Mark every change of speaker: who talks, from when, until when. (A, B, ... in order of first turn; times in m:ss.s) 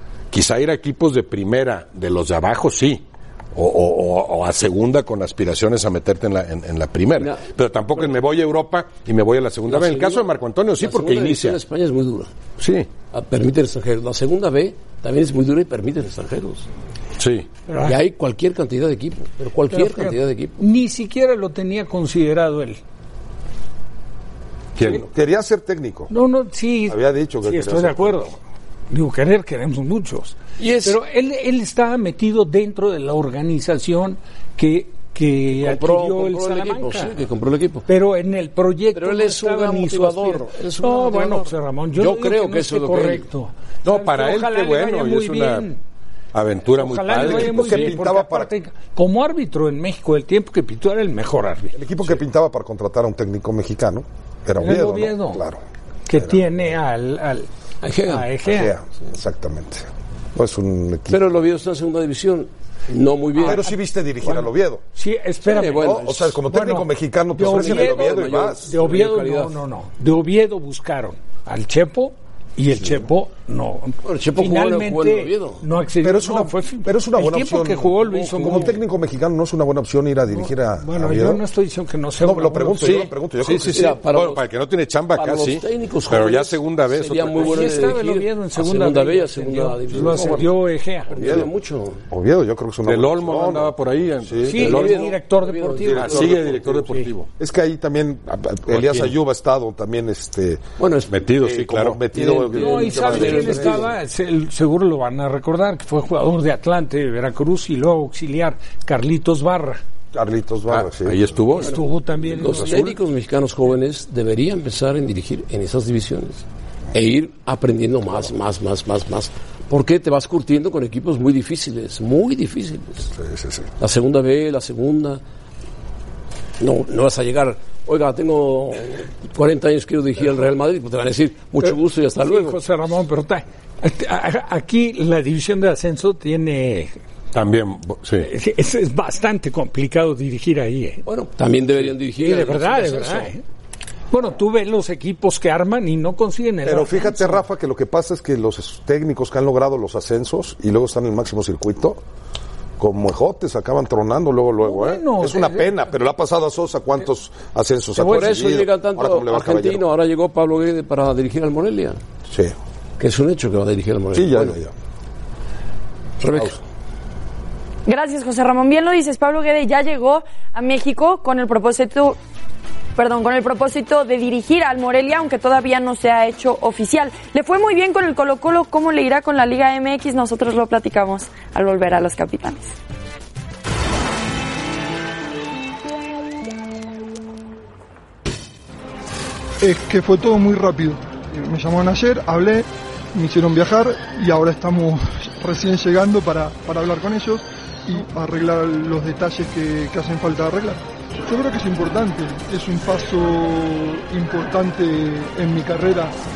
0:00.3-0:03.0 A
0:03.5-0:11.6 A
0:07.2-0:08.1 B
0:09.7-0:12.3 B
0:12.6-0:12.9 A
0:13.1-0:16.6 B
0:17.2-0:17.5 A
0:17.7-0:18.0 C
0:17.8-0:20.6 B
0:19.7-0:22.8 C
0:24.8-0:25.0 A
0:24.8-0:26.1 D
0:26.1-0:28.4 C
0:26.9-0:28.2 D
0:28.9-0:37.1 C
0:30.6-0:31.0 B
0:35.6-0:37.8 B
0:37.9-0:45.8 C
0:38.9-0:43.2 B
0:43.8-0:45.7 A
0:46.3-0:48.0 A
0:46.7-0:51.8 C
0:47.1-0:48.5 D
0:51.7-0:55.6 D
0:54.6-0:55.4 C
0:56.1-0:57.5 C
0:57.8-0:58.3 B
0:58.0-0:58.7 C
0:58.4-1:01.4 D
1:01.1-1:03.7 B
1:03.4-1:18.8 C
1:03.4-1:04.8 D
1:05.4-1:06.4 B
1:05.8-1:08.7 D
1:07.4-1:09.6 B
1:14.0-1:15.6 B
1:16.0-1:21.4 D
1:18.2-1:18.7 B
1:20.3-1:23.1 C
1:22.2-1:23.9 D
1:22.8-1:27.7 A
1:23.7-1:24.4 B
1:25.1-1:30.5 B
1:27.4-1:31.2 C
1:31.1-1:32.0 B
1:31.2-1:31.5 D
1:32.1-1:33.7 D
1:32.8-1:35.1 A
1:34.2-1:34.8 D
1:34.4-1:36.4 C
1:34.6-1:36.2 B
1:35.8-1:40.7 D
1:35.9-1:37.3 A
1:38.7-1:39.1 A
1:40.8-1:41.2 B
1:41.1-1:42.0 A
1:41.4-1:43.8 D
1:42.1-1:43.9 B
1:42.5-1:49.8 C
1:50.1-1:51.3 D
1:50.7-1:51.8 A
1:51.6-1:53.0 C
1:52.3-2:03.1 B
2:03.2-2:03.7 D
2:03.8-2:05.2 B
2:06.6-2:12.6 B
2:11.6-2:17.0 C
2:17.3-2:18.3 A
2:18.2-2:21.0 C
2:21.0-2:23.3 B
2:22.2-2:23.4 C
2:24.1-2:27.4 C
2:26.6-2:32.0 D
2:32.8-2:39.9 D
2:34.6-2:35.7 C
2:38.0-2:42.0 B
2:43.0-2:44.6 B
2:44.1-2:44.7 D
2:46.2-2:46.6 B
2:47.8-2:52.2 E
2:53.0-3:02.7 E
3:09.6-3:26.1 F